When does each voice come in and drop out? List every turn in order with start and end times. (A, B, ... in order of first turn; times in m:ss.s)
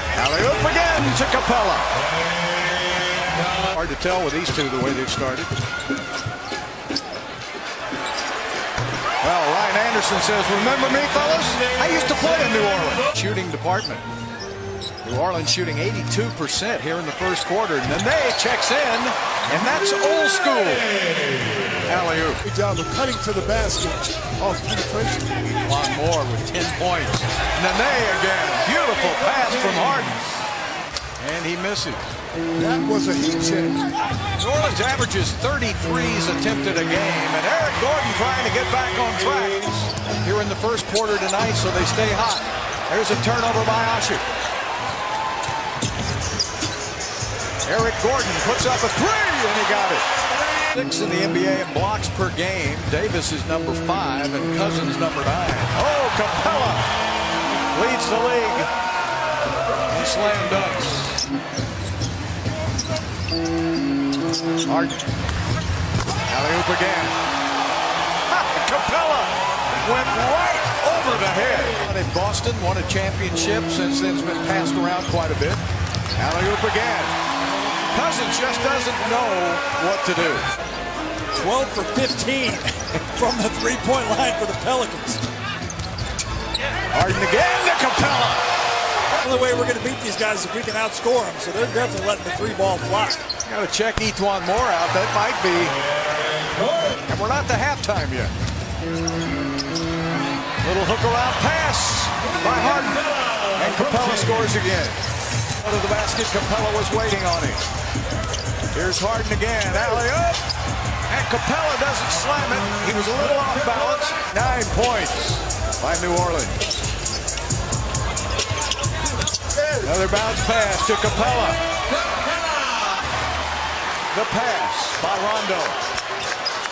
0:00.1-0:01.9 A
0:03.5-0:05.5 A
0:09.2-0:14.0 A
0:15.0-0:20.9 A
0:21.9-0:22.4 A
0:22.4-0:25.4 B
0:25.6-0:30.4 A
0:31.2-0:32.1 A
0:32.6-0:33.8 B
0:34.4-0:44.2 A
0:47.6-0:50.1 A
0:50.7-0:56.9 A
0:57.7-0:58.7 A
0:59.9-1:01.2 A
1:04.7-1:05.1 A
1:06.3-1:07.2 A
1:08.3-1:15.6 A
1:16.2-1:17.1 A
1:17.9-1:20.4 A
1:21.4-1:25.2 C
1:26.9-1:28.5 A
1:29.1-1:33.3 C
1:33.4-1:35.8 A
1:36.9-1:38.3 A
1:40.6-1:45.0 A
1:45.6-1:47.6 A
1:48.7-1:50.4 A
1:51.1-1:56.6 A
1:59.8-2:01.6 A
2:04.1-2:05.8 A